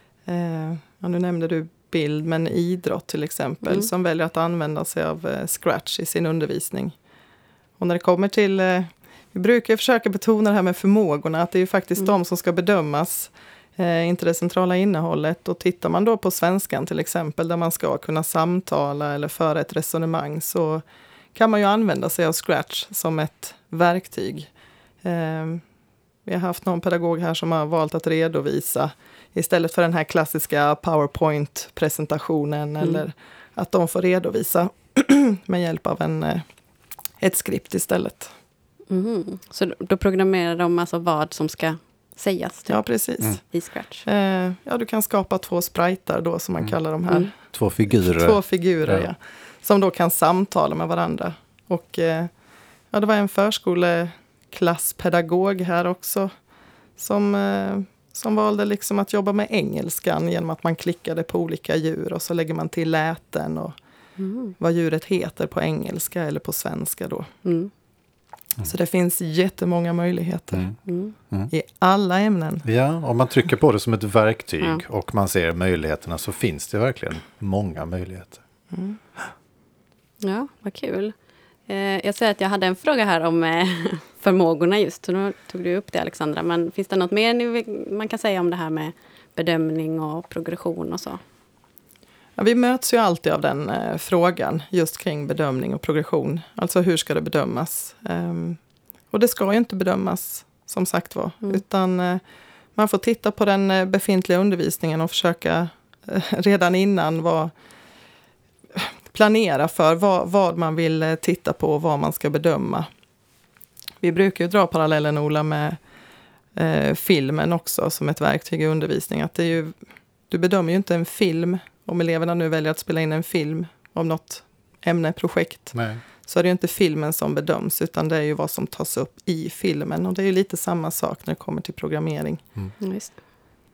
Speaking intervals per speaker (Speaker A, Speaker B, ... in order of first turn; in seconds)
Speaker A: 0.3-7.0, 7.8-24.5, 25.0-25.6, 26.2-36.4, 37.2-38.3, 42.7-43.4, 44.0-52.3, 52.9-56.3, 57.0-63.8, 64.6-67.3, 68.6-70.7, 71.5-72.7, 78.7-79.0, 92.4-98.6, 99.1-102.2, 102.8-107.5, 108.8-112.9, 114.0-115.8, 116.5-119.8, 120.3-132.4
Speaker B: 3.6-3.9, 38.9-42.8, 43.5-44.0, 64.2-64.5, 67.4-67.7, 70.9-71.2, 80.2-81.1, 81.7-91.2, 132.8-133.2
Speaker C: 47.5-49.1, 72.7-78.4, 125.7-126.0